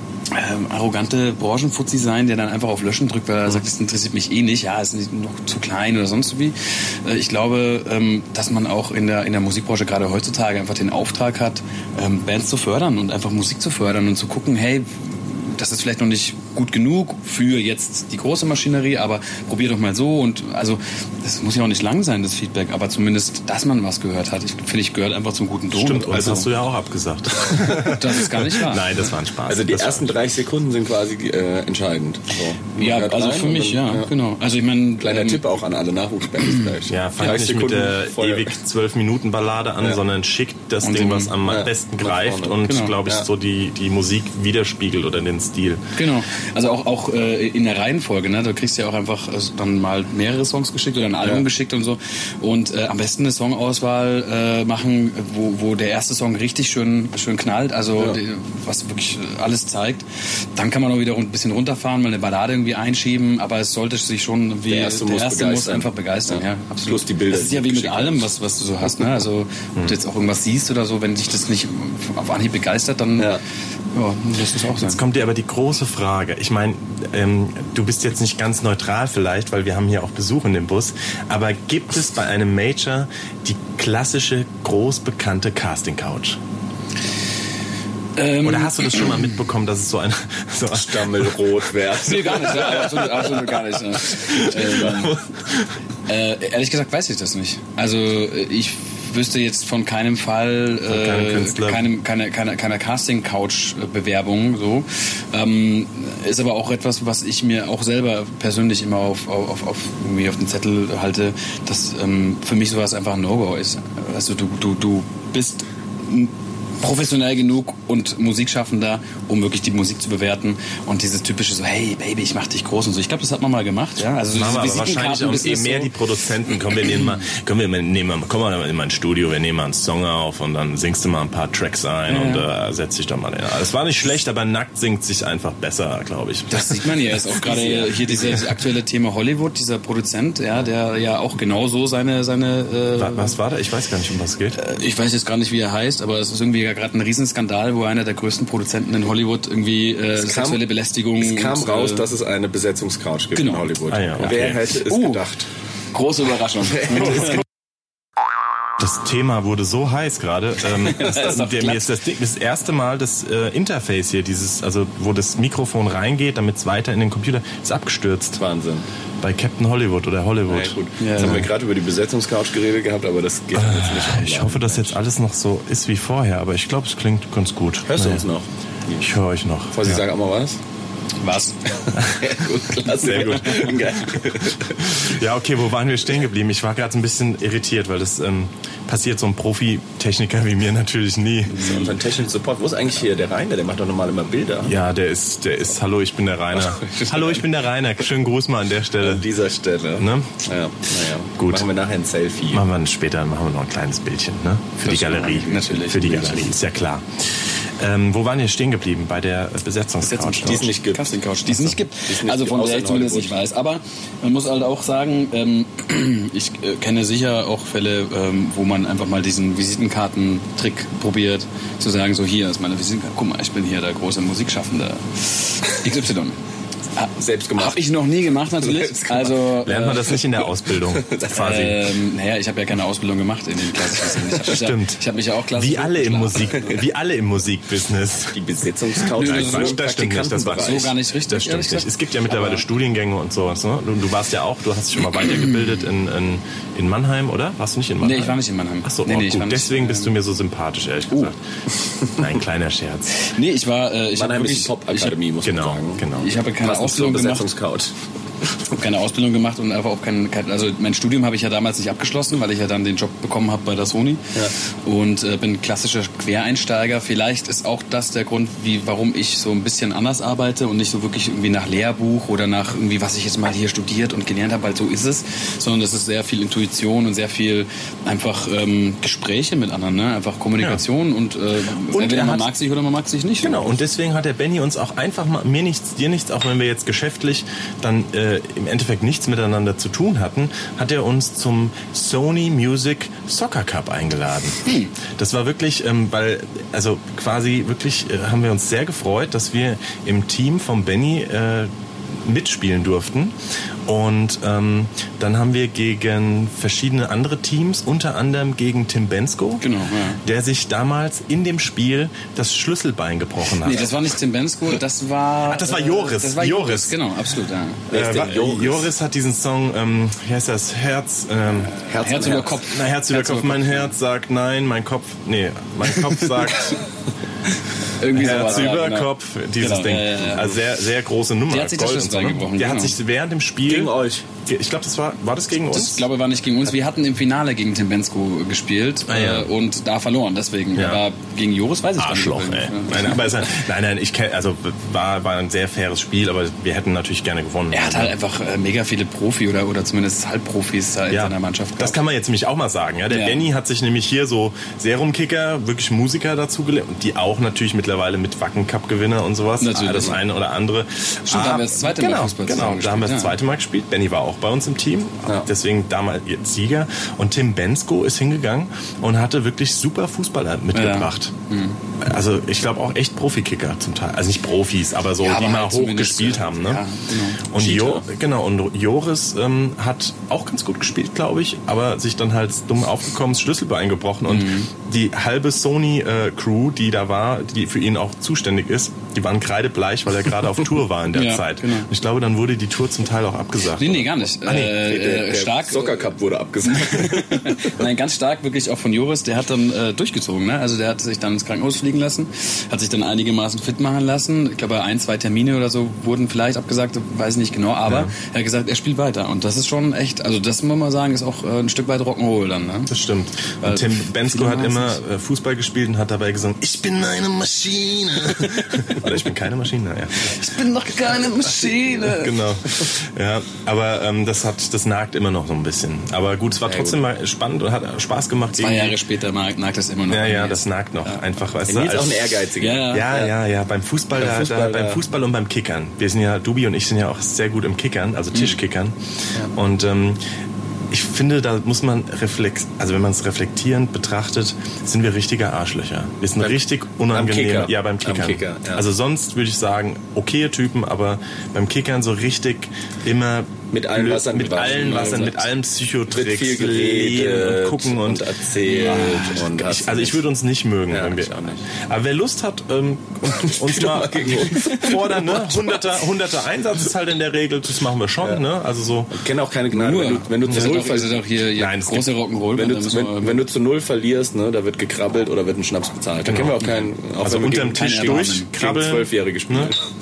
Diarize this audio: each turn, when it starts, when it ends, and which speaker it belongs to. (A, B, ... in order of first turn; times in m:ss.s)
0:00.3-0:26.5 A
0:25.7-0:30.2 B
0:27.8-0:29.1 A
0:29.4-0:34.1 C
0:32.8-0:35.4 A
0:35.0-0:38.5 C
0:36.9-0:45.8 B
0:40.8-0:41.3 A
0:41.4-0:43.3 C
0:42.6-0:43.0 A
0:45.9-1:13.3 A
1:04.7-1:08.3 C
1:13.9-1:15.0 A
1:14.8-1:26.4 B
1:28.2-1:29.3 A
1:28.4-1:31.5 B
1:30.7-1:35.2 C
1:32.0-1:35.2 A
1:36.1-2:05.9 A
1:40.9-1:41.9 B
2:04.3-2:16.9 B
2:12.1-2:12.4 A
2:16.5-2:23.4 A
2:17.5-2:18.3 C
2:23.0-2:24.6 B
2:24.6-2:32.1 A
2:30.2-2:30.6 C
2:31.2-2:35.5 C
2:33.4-2:33.7 A
2:33.9-2:34.7 B
2:34.2-2:35.2 A
2:35.9-2:37.4 A
2:36.6-2:37.4 C
2:38.8-2:48.4 B
2:40.8-2:41.9 A
2:48.4-2:48.8 C
2:49.2-2:51.5 B
2:50.5-2:55.0 C
2:51.0-2:51.5 A
2:53.5-2:58.2 B
2:57.9-2:59.1 C
2:59.0-3:00.0 B
2:59.7-3:00.6 C
3:01.2-3:01.6 A
3:01.9-3:05.0 C
3:01.9-3:02.3 B
3:02.9-3:03.7 B
3:04.8-3:11.8 B
3:11.5-3:14.7 C
3:11.6-3:11.9 A
3:14.6-3:19.3 B
3:16.6-3:17.4 C
3:19.0-3:22.6 C
3:20.0-3:20.4 B
3:21.4-3:21.7 B
3:22.5-3:30.7 B
3:24.8-3:26.5 A
3:30.0-3:46.4 A
3:30.4-3:31.2 C
3:31.5-3:31.8 B
3:32.0-3:33.4 C
3:47.0-3:50.2 A
3:47.2-3:49.5 C
3:49.6-3:51.9 B
3:50.6-3:51.8 C
3:51.3-3:56.8 A
3:54.0-3:54.3 C
3:54.5-3:58.4 B
3:56.5-3:56.8 C
3:58.3-4:00.9 C
3:58.9-4:11.4 B
3:59.1-3:59.8 A
4:00.5-4:02.6 A
4:08.0-4:10.1 A
4:12.1-4:13.3 B
4:13.1-4:15.2 A
4:14.1-4:17.9 C
4:15.4-4:16.4 B
4:16.2-4:17.5 A
4:18.7-4:43.7 A
4:41.9-4:42.5 B
4:43.4-5:13.9 B
4:54.6-4:54.9 A
5:09.6-5:10.2 A
5:13.6-5:17.8 A
5:15.4-5:17.0 B
5:17.9-5:18.9 C
5:17.9-5:21.7 B
5:21.6-5:23.9 A
5:21.9-5:22.6 C
5:22.6-5:26.8 B
5:28.0-5:30.6 A
5:28.1-5:36.1 B
5:28.2-5:28.7 C
5:31.5-5:32.9 A
5:33.6-5:34.2 C
5:35.7-5:43.4 A
5:39.1-5:39.5 B
5:40.7-5:41.0 B
5:42.0-5:48.1 B
5:47.7-5:52.0 A
5:51.1-6:11.3 B
5:53.1-5:53.4 A
5:59.6-6:00.2 A
6:01.3-6:03.4 A
6:10.7-6:11.8 A
6:12.0-6:16.9 B
6:15.2-6:17.5 A
6:17.4-6:34.8 B
6:17.6-6:18.0 C
6:24.3-6:24.7 A
6:31.1-6:31.9 A
6:33.8-6:36.1 A
6:34.6-6:37.8 C
6:36.7-6:52.9 A
6:47.9-6:48.1 B
6:52.9-7:00.3 B
6:53.6-6:55.0 A
7:00.2-7:02.5 A
7:02.0-7:09.0 B
7:06.6-7:07.0 C
7:08.5-7:11.2 A
7:10.1-7:19.0 B
7:11.6-7:13.3 C
7:12.6-7:13.1 A
7:14.2-7:15.0 C
7:19.5-7:20.2 B
7:20.9-7:49.1 B
7:26.4-7:28.8 C
7:33.7-7:40.2 C
7:38.6-7:39.4 A
7:40.9-7:41.6 C
7:43.3-7:45.8 C
7:49.1-7:51.2 C
7:49.7-7:53.4 A
7:50.4-7:51.0 B
7:51.5-7:52.1 B
7:52.5-7:59.8 C
7:56.2-7:59.7 B
7:57.8-7:58.5 A